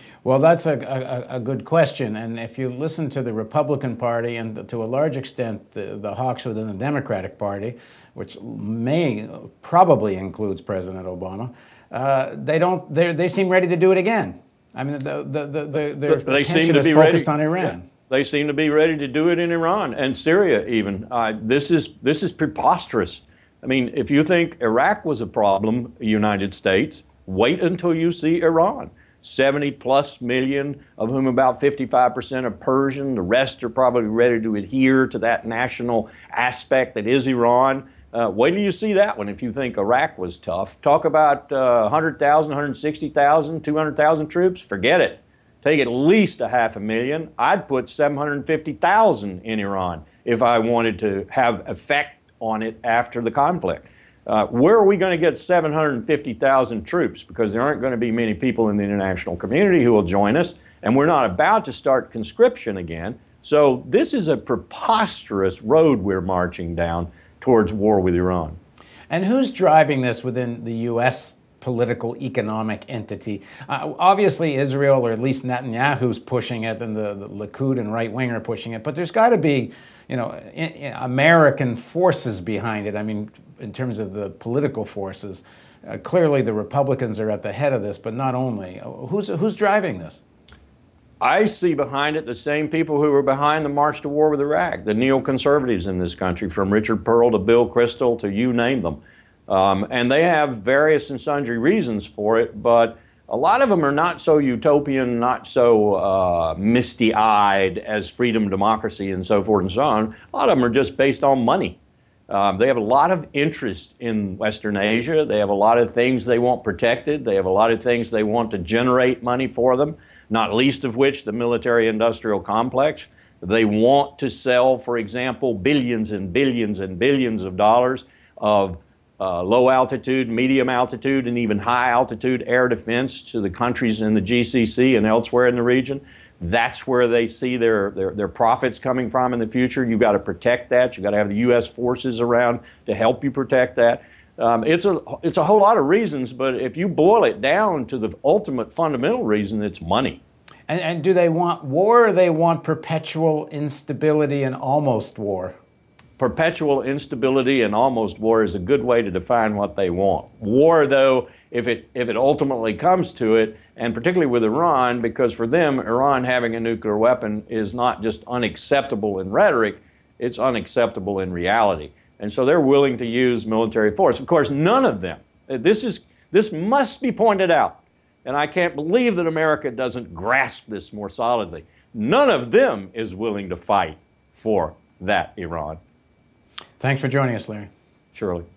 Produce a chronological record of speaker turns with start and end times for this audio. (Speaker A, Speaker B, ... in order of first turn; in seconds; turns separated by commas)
Speaker A: 0.2-17.9, Speaker B: 16.1-68.6, Speaker A: 69.1-90.2, Speaker B: 91.2-111.8, Speaker B: 112.3-150.2, Speaker A: 150.7-155.5, Speaker B: 156.2-185.8, Speaker A: 186.8-187.7, Speaker B: 188.1-188.4